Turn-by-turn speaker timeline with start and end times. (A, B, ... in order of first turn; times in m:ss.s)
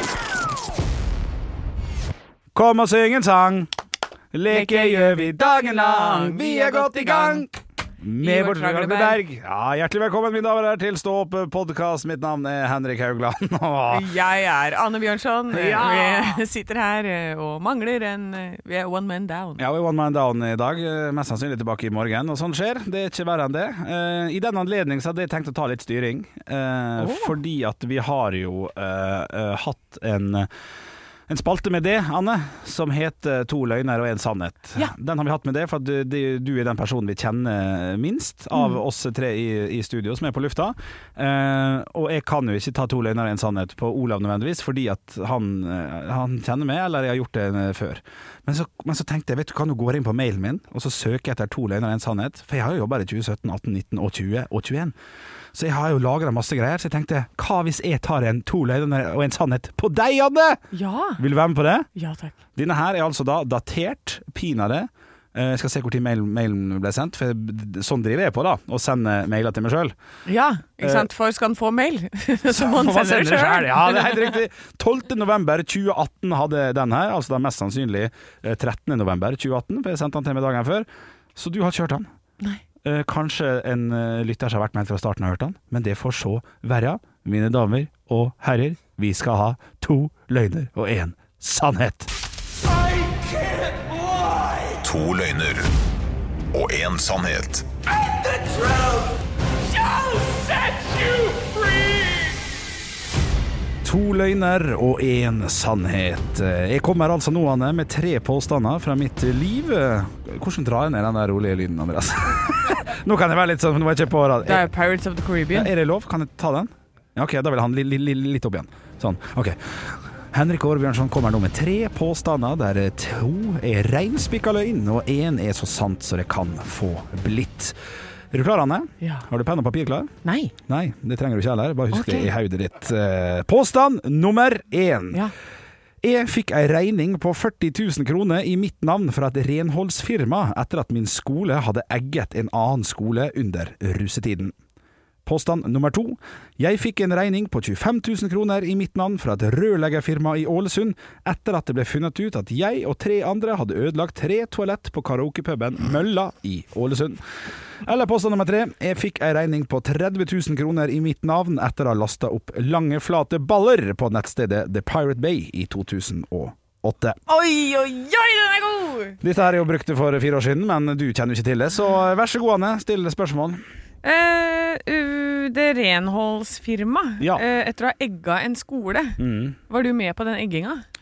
0:02.5-0:03.7 A
0:04.3-0:14.1 A
0:04.5-0:07.5 B
0:08.2-0:09.2 B
0:13.9-0:19.6 B
0:15.5-0:16.4 A
0:19.6-0:30.5 A
0:27.0-0:27.3 B
0:31.3-0:55.0 A
0:55.5-1:00.6 A
1:00.7-1:01.2 B
1:01.2-1:01.9 A
1:02.0-1:02.4 B
1:02.6-1:09.9 A
1:10.2-1:14.4 B
1:10.8-1:11.1 A
1:12.5-1:22.1 A
1:22.8-1:32.1 A
1:34.8-1:35.7 C
1:36.5-1:37.7 C
1:43.8-1:54.7 A
1:54.4-1:55.7 B
1:55.5-2:07.8 A
2:08.3-2:10.1 A
2:10.2-2:10.5 B
2:10.7-2:15.2 A
2:11.9-2:12.3 B
2:16.0-2:24.6 A
2:25.2-2:37.2 A
2:37.8-2:47.2 A
2:47.3-2:49.2 B
2:49.2-2:53.6 A
2:54.0-3:00.8 B
2:59.2-2:59.6 A